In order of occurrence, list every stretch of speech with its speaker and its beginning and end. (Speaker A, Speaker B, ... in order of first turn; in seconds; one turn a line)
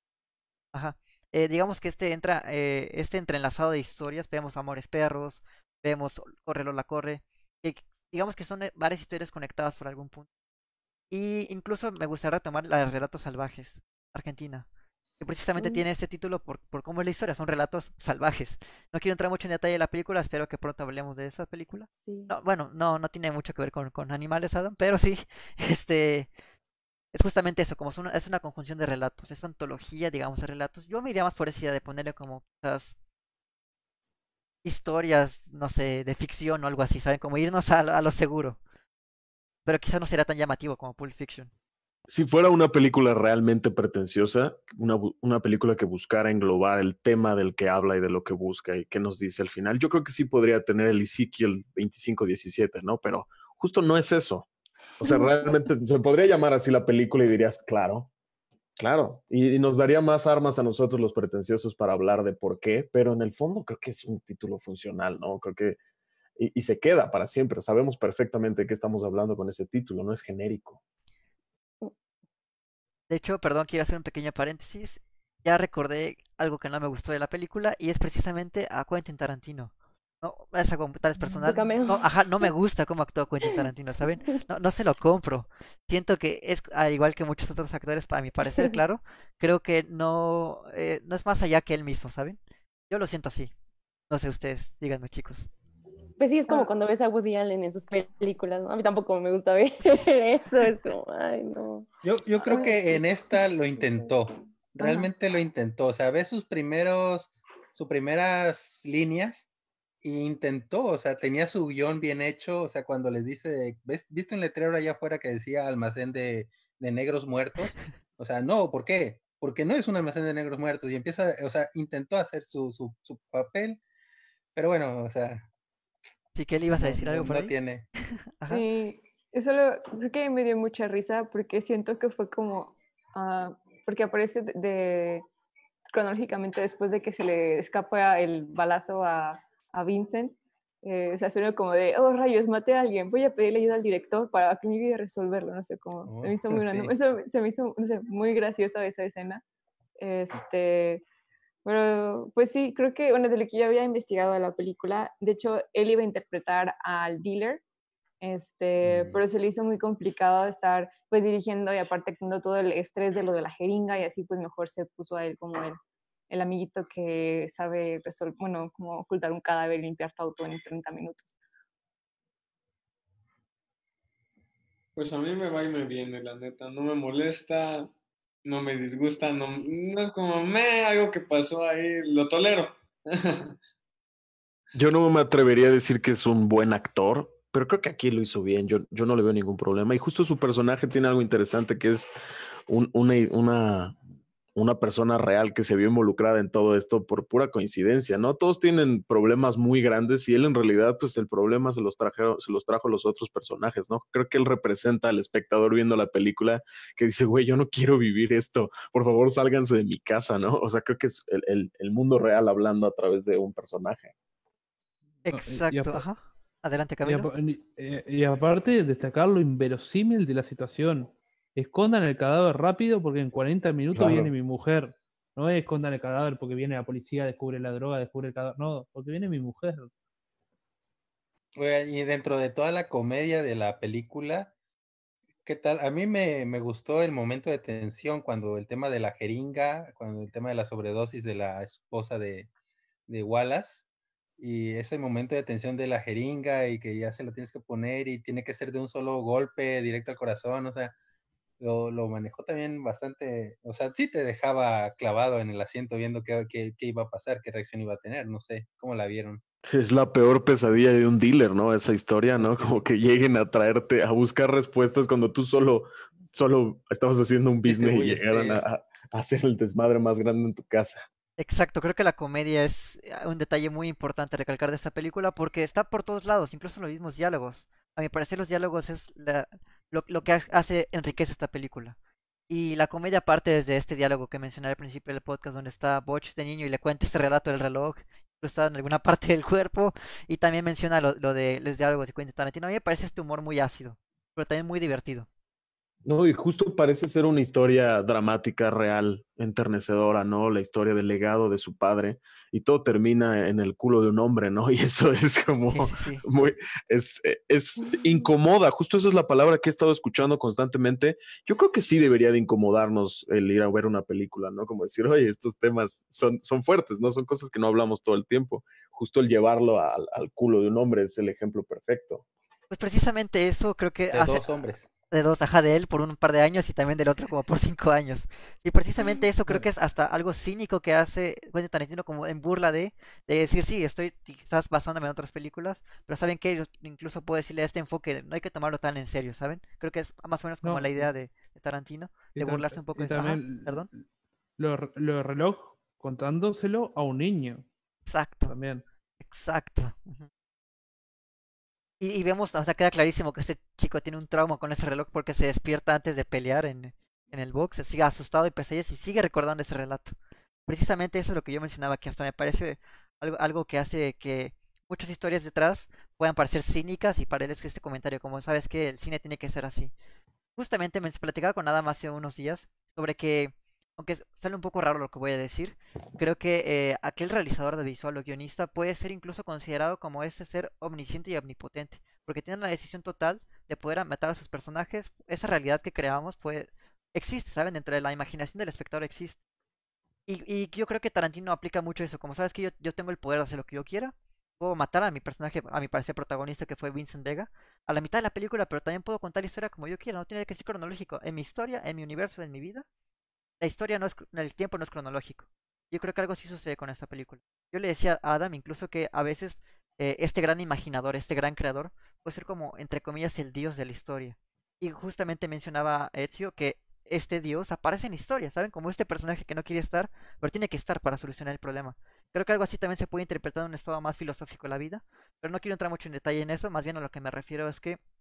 Speaker A: 0.7-10.3
Speaker A: 11.1-14.7
Speaker A: 15.2-26.3
Speaker B: 15.6-15.8
Speaker B: 22.0-22.3
Speaker A: 27.1-33.0
Speaker A: 34.6-38.6
Speaker A: 39.7-41.5
Speaker C: 42.1-54.5
Speaker C: 55.0-58.1
Speaker B: 55.0-55.5
Speaker C: 58.8-65.8
Speaker C: 66.4-70.8
Speaker A: 73.1-92.4
Speaker B: 81.2-82.5
Speaker B: 88.5-88.8
Speaker A: 92.9-93.5
Speaker A: 94.1-95.5
Speaker B: 96.2-101.9
Speaker D: 102.0-109.5
Speaker B: 102.4-103.0
Speaker B: 103.8-104.1
Speaker B: 104.8-105.1
Speaker D: 110.0-123.8
Speaker D: 124.5-125.5
Speaker A: 126.3-127.6
Speaker D: 126.7-127.9
Speaker A: 128.4-128.7
Speaker E: 128.5-135.3
Speaker E: 135.9-149.4
Speaker D: 146.1-146.9
Speaker E: 150.0-151.0
Speaker E: 151.7-157.6
Speaker E: 158.2-165.8
Speaker D: 158.8-159.2
Speaker E: 166.3-171.4
Speaker F: 175.0-177.9
Speaker F: 178.4-183.6
Speaker C: 184.7-192.1
Speaker C: 192.7-194.0
Speaker C: 194.6-214.1
Speaker A: 215.2-217.3
Speaker G: 215.3-216.0
Speaker G: 217.1-229.9
Speaker C: 223.9-224.3
Speaker D: 231.6-234.5
Speaker D: 235.4-242.5
Speaker D: 243.1-243.8
Speaker D: 244.4-250.9
Speaker D: 251.6-259.4
Speaker C: 259.7-271.1
Speaker D: 262.4-262.8
Speaker D: 267.7-268.6
Speaker A: 271.4-281.9
Speaker A: 282.5-295.3
Speaker C: 296.1-322.2
Speaker A: 305.7-306.2
Speaker B: 307.8-308.2
Speaker A: 322.7-324.5
Speaker D: 324.1-324.9
Speaker A: 325.1-343.9
Speaker G: 340.6-341.1
Speaker G: 342.4-344.0
Speaker G: 344.6-347.6
Speaker A: 348.1-348.6
Speaker G: 348.4-348.8
Speaker A: 349.2-350.3
Speaker A: 352.0-360.2
Speaker A: 360.7-369.9
Speaker A: 370.6-389.4
Speaker A: 390.3-402.9
Speaker A: 403.6-428.0